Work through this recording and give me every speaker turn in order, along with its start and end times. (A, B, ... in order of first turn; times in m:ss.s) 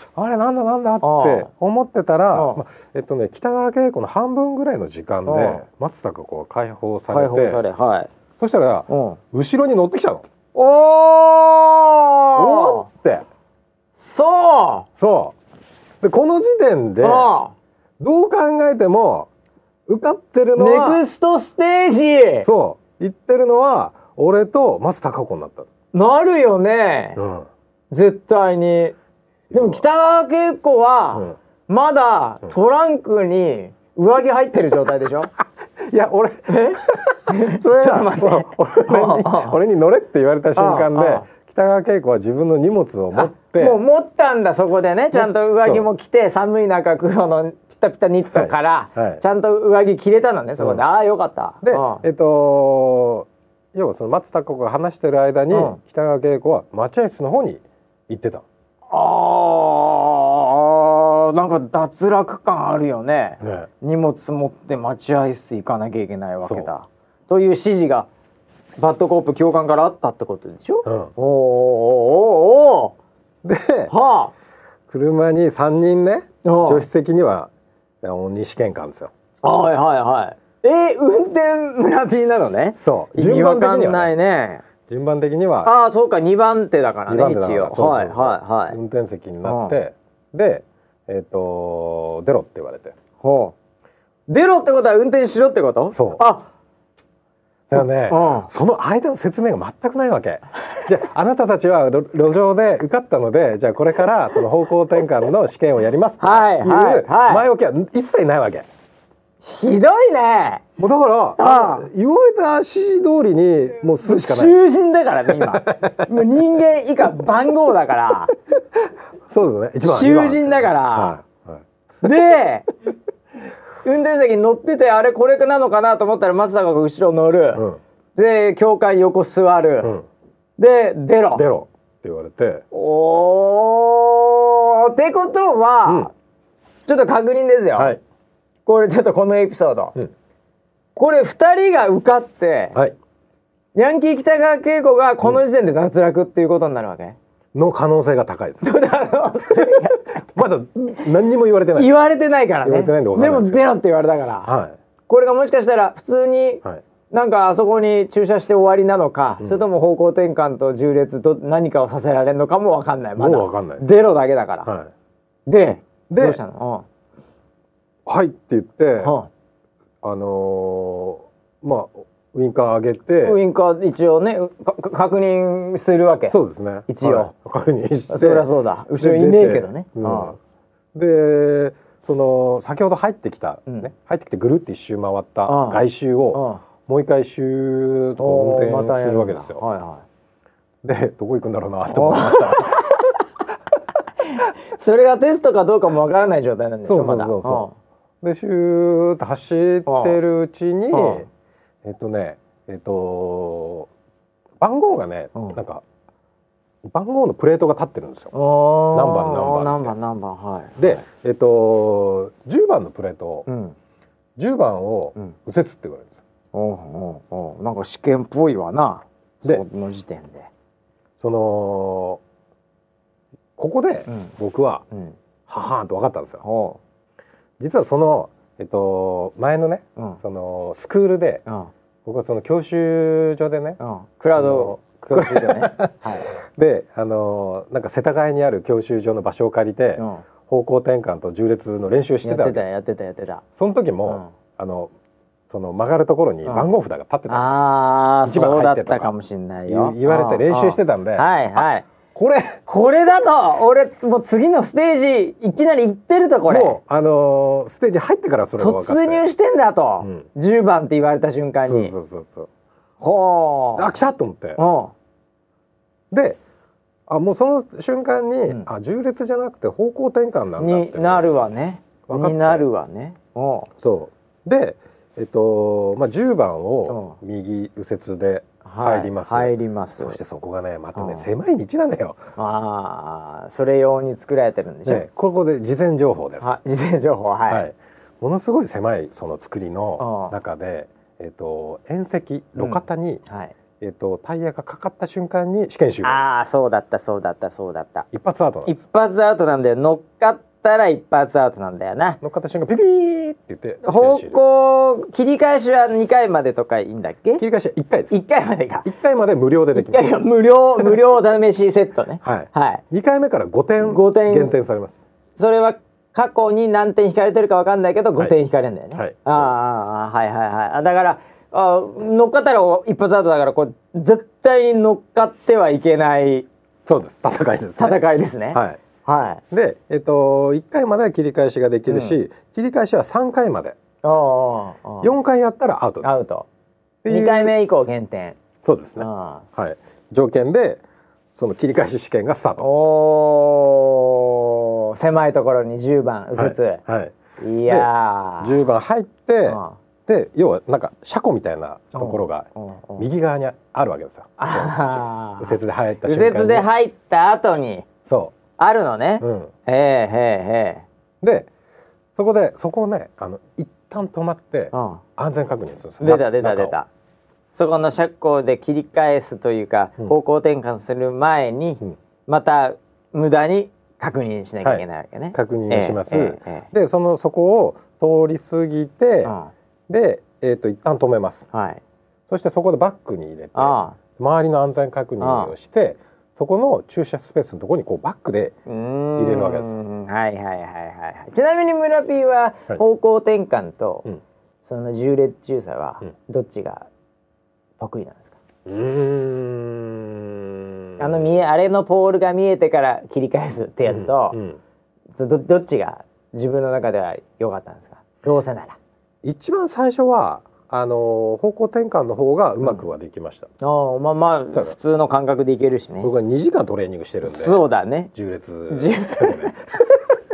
0:00.1-0:07.6 A
0:01.0-0:01.5 B
0:02.3-0:02.6 B
0:05.2-0:05.6 B
0:07.1-0:08.1 B
0:08.4-0:10.2 A
0:08.9-0:09.2 B
0:10.5-0:12.9 B
0:12.3-0:13.2 A
0:14.0-0:14.9 B
0:15.0-0:15.3 A
0:16.0-0:17.3 A
0:17.0-0:17.5 B
0:18.0-0:19.3 A
0:19.9-0:21.0 A
0:20.6-0:22.5 B
0:22.4-0:25.7 A
0:25.9-0:27.2 B
0:27.2-0:27.5 A
0:27.9-0:28.9 B
0:29.5-0:29.8 A
0:29.5-0:35.3 B
0:35.8-0:43.8 A
0:36.5-0:39.6 B
0:40.5-0:41.2 B
0:43.1-0:52.0 B
0:45.1-0:45.9 A
0:48.3-0:49.2 A
0:51.6-0:58.4 A
0:55.5-0:55.8 B
0:58.9-1:08.1 B
1:03.4-1:03.7 A
1:06.4-1:06.7 A
1:08.8-1:13.0 B
1:10.8-1:11.1 A
1:13.4-1:13.9 A
1:13.9-1:14.3 B
1:14.9-1:17.5 A
1:16.4-1:16.8 B
1:18.0-1:19.1 A
1:19.4-1:24.6 B
1:22.8-1:24.1 A
1:24.9-1:25.7 A
1:25.6-1:28.8 B
1:27.1-1:32.9 A
1:29.4-1:29.8 B
1:33.2-1:33.5 B
1:34.3-1:36.4 B
1:35.9-1:36.2 A
1:37.7-1:48.7 A
1:37.8-1:38.5 B
1:46.2-1:47.4 B
1:49.4-1:50.6 B
1:50.8-1:54.5 A
1:51.4-1:51.9 B
1:54.0-1:58.3 B
1:55.4-1:56.1 A
1:59.3-2:01.6 A
1:59.8-2:01.2 B
2:02.0-2:02.7 B
2:03.8-2:07.6 B
2:07.5-2:07.8 A
2:08.2-2:09.9 B
2:10.6-2:11.4 B
2:11.3-2:12.6 A
2:12.7-2:16.1 B
2:16.9-2:18.0 B
2:18.6-2:19.9 B
2:21.0-2:22.8 B
2:23.7-2:27.2 B
2:27.5-2:28.7 A
2:28.6-2:30.2 B
2:29.5-2:31.9 A
2:31.8-2:34.5 B
2:32.6-2:33.6 A
2:34.4-2:34.7 A
2:35.1-2:44.7 B
2:43.2-2:43.9 A
2:44.6-2:44.9 A
2:45.5-2:46.8 B
2:46.1-2:46.4 A
2:48.0-2:49.1 A
2:49.0-2:49.3 B
2:50.0-2:53.4 A
2:53.2-2:56.4 B
2:56.3-3:00.4 A
2:56.9-2:57.3 B
2:58.1-3:00.4 B
3:00.9-3:09.6 A
3:05.5-3:05.8 B
3:06.3-3:06.6 B
3:08.2-3:10.0 B
3:10.8-3:13.1 A
3:11.9-3:13.1 B
3:14.3-3:17.7 B
3:16.8-3:17.7 A
3:18.2-3:21.3 A
3:19.8-3:20.2 B
3:20.9-3:21.2 B
3:21.8-3:23.9 A
3:24.6-3:25.8 A
3:26.8-3:28.3 A
3:28.3-3:31.0 B
3:28.9-3:29.9 A
3:30.8-3:33.5 A
3:33.5-3:33.8 B
3:34.4-3:36.2 A
3:36.5-3:40.5 B
3:41.2-3:42.2 A
3:43.6-3:44.8 A
3:44.1-3:44.3 B
3:45.5-3:46.4 A
3:46.4-3:46.8 B
3:47.6-3:51.4 A
3:51.4-3:51.7 B
3:52.0-3:53.8 A
3:53.8-3:56.3 B
3:54.3-4:02.7 A
4:00.0-4:00.2 B
4:02.2-4:03.4 B
4:03.6-4:04.9 A
4:04.1-4:04.3 B
4:05.5-4:07.6 A
4:07.3-4:11.9 B
4:08.2-4:09.1 A
4:09.7-4:11.3 A
4:12.1-4:12.6 A
4:12.7-4:16.8 B
4:16.5-4:19.2 A
4:18.6-4:21.9 B
4:21.6-4:22.5 A
4:23.0-4:23.9 B
4:23.8-4:24.6 A
4:24.6-4:24.9 B
4:26.1-4:26.4 A
4:27.1-4:31.3 A
4:30.6-4:33.7 B
4:32.1-4:32.6 A
4:33.8-4:42.2 A
4:36.9-4:37.2 B
4:38.6-4:40.2 B
4:40.9-4:41.3 B
4:42.4-4:45.0 B
4:44.8-4:46.6 A
4:46.4-4:47.6 B
4:47.5-4:53.2 A
4:50.0-4:50.3 B
4:52.6-4:53.5 B
4:53.8-4:56.4 A
4:56.0-4:58.1 B
4:58.1-4:58.8 A
4:58.6-5:02.2 B
5:02.2-5:04.4 A
5:03.8-5:07.4 B
5:07.4-5:08.2 A
5:08.1-5:08.9 B
5:08.8-5:10.2 A
5:09.7-5:12.8 B
5:12.2-5:15.1 A
5:13.8-5:14.5 B
5:15.4-5:26.5 B
5:18.9-5:19.6 A
5:26.8-5:28.0 A
5:27.8-5:29.4 B
5:28.5-5:28.8 A
5:29.5-5:33.8 A
5:31.9-5:32.2 B
5:34.0-5:35.1 B
5:35.0-5:36.2 A
5:36.0-5:36.5 B
5:37.0-5:37.5 A
5:37.1-5:38.4 B
5:38.6-5:40.8 A
5:39.0-5:39.4 B
5:41.3-5:42.6 A
5:42.6-5:46.8 B
5:46.4-5:47.1 A
5:47.4-5:48.6 B
5:47.7-5:54.8 A
5:49.5-5:49.8 B
5:51.9-5:53.1 B
5:54.4-5:57.9 B
5:55.4-5:56.7 A
5:58.0-5:58.3 A
5:58.6-6:00.8 B
5:59.2-5:59.5 A
6:01.2-6:01.5 A
6:02.1-6:06.7 A
6:04.7-6:05.0 B
6:06.0-6:06.9 B
6:07.5-6:16.7 B
6:14.6-6:19.3 A
6:19.2-6:19.5 B
6:19.9-6:21.5 A
6:21.5-6:21.8 B
6:22.3-6:28.5 A
6:23.5-6:24.0 B
6:25.2-6:25.5 B
6:28.7-6:34.1 B
6:29.2-6:29.8 A
6:34.6-6:36.9 B
6:37.8-6:38.4 B
6:38.6-6:41.4 A
6:41.0-6:44.4 B
6:43.9-6:44.6 A
6:45.1-6:48.8 B
6:49.2-6:53.5 A
6:53.6-6:56.1 B
6:56.0-6:57.6 A
6:57.2-6:58.1 B
6:58.1-6:59.5 A
6:58.7-7:00.0 B